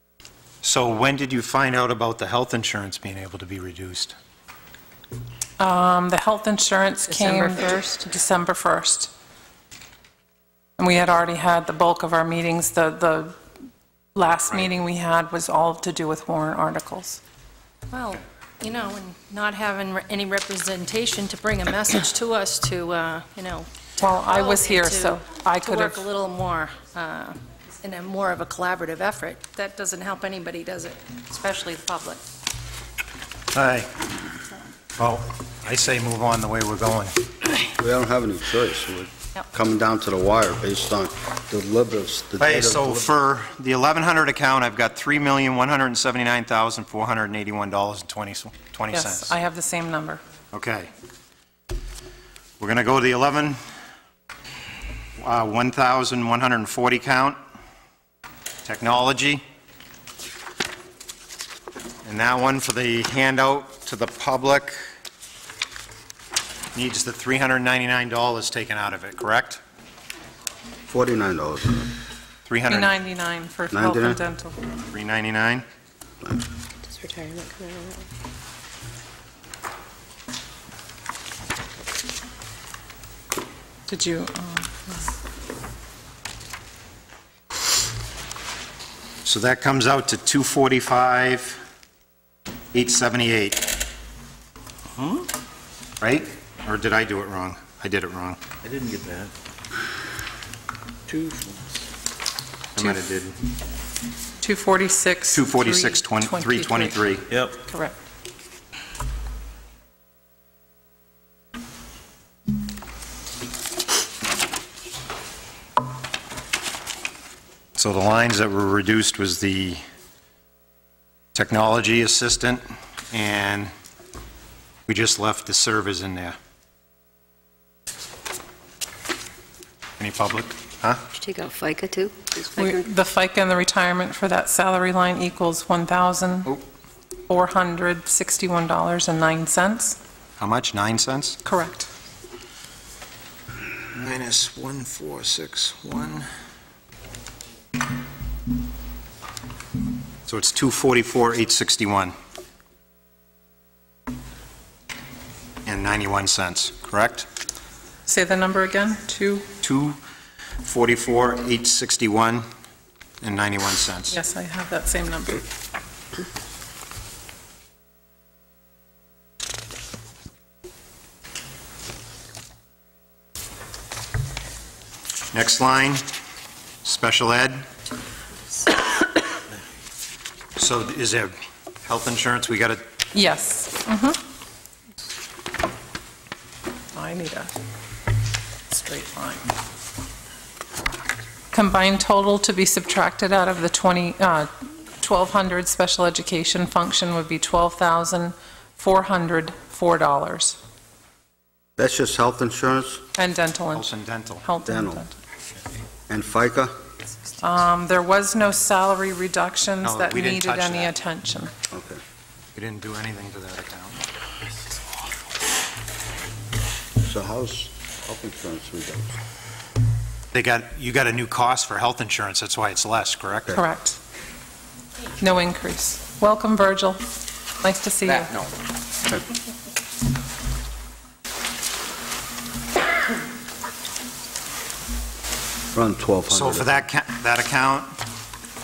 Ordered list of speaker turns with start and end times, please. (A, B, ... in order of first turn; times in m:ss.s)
0:00.6-0:04.1 A
0:05.6-0:09.1 B
0:07.1-0:07.8 C
0:10.8-0:13.4 B
0:14.1-0:17.2 B
0:17.9-0:32.2 D
0:24.0-0:26.0 B
0:33.5-0:33.9 A
0:35.0-0:37.2 A
0:37.8-0:43.1 E
0:42.4-0:49.3 A
0:48.9-0:50.2 B
0:50.5-0:50.9 A
0:52.6-0:53.6 A
0:55.2-0:57.4 A
0:58.6-0:59.4 A
1:02.0-1:04.8 A
1:06.7-1:09.6 A
1:10.9-1:11.9 E
1:12.5-1:12.9 A
1:12.6-1:14.6 B
1:13.7-1:14.2 E
1:14.9-1:15.6 A
1:16.8-1:18.0 C
1:23.9-1:25.0 B
1:29.2-1:31.6 A
1:32.7-1:33.7 A
1:35.0-1:35.3 F
1:36.0-1:38.4 A
1:38.6-1:39.3 F
1:41.1-1:41.8 F
1:42.8-1:43.3 A
1:44.4-1:47.0 B
1:45.3-1:47.3 A
1:47.3-1:47.6 F
1:47.6-1:48.0 B
1:57.8-1:59.8 A
2:01.3-2:03.7 A
2:04.9-2:06.4 A
2:10.0-2:11.0 A
2:11.1-2:12.9 C
2:12.6-2:16.5 B
2:17.3-2:20.0 B
2:20.4-2:21.4 A
2:21.4-2:21.9 B
2:23.9-2:26.3 A
2:30.3-2:32.1 A
2:35.6-2:37.3 A
2:38.0-2:39.5 B
2:39.6-2:40.0 A
2:40.6-2:42.4 A
2:43.2-2:44.2 A
2:44.1-2:45.4 B
2:55.3-2:56.0 A
2:56.8-2:57.6 A
3:00.6-3:01.3 A
3:01.8-3:02.8 A
3:03.1-3:04.2 B
3:06.9-3:07.5 B
3:08.7-3:09.5 B
3:11.5-3:20.6 B
3:21.8-3:23.0 E
3:23.2-3:25.2 B
3:23.7-3:24.4 A
3:24.6-3:25.0 E
3:26.1-3:26.7 E
3:27.4-3:31.5 B
3:29.8-3:30.9 A
3:31.7-3:32.0 E
3:32.5-3:34.0 A
3:37.0-3:39.1 E
3:40.3-3:43.6 A
3:43.5-3:44.0 B
3:45.2-3:47.0 B
3:47.6-3:48.3 B
3:55.7-3:56.8 E
3:56.3-3:57.9 A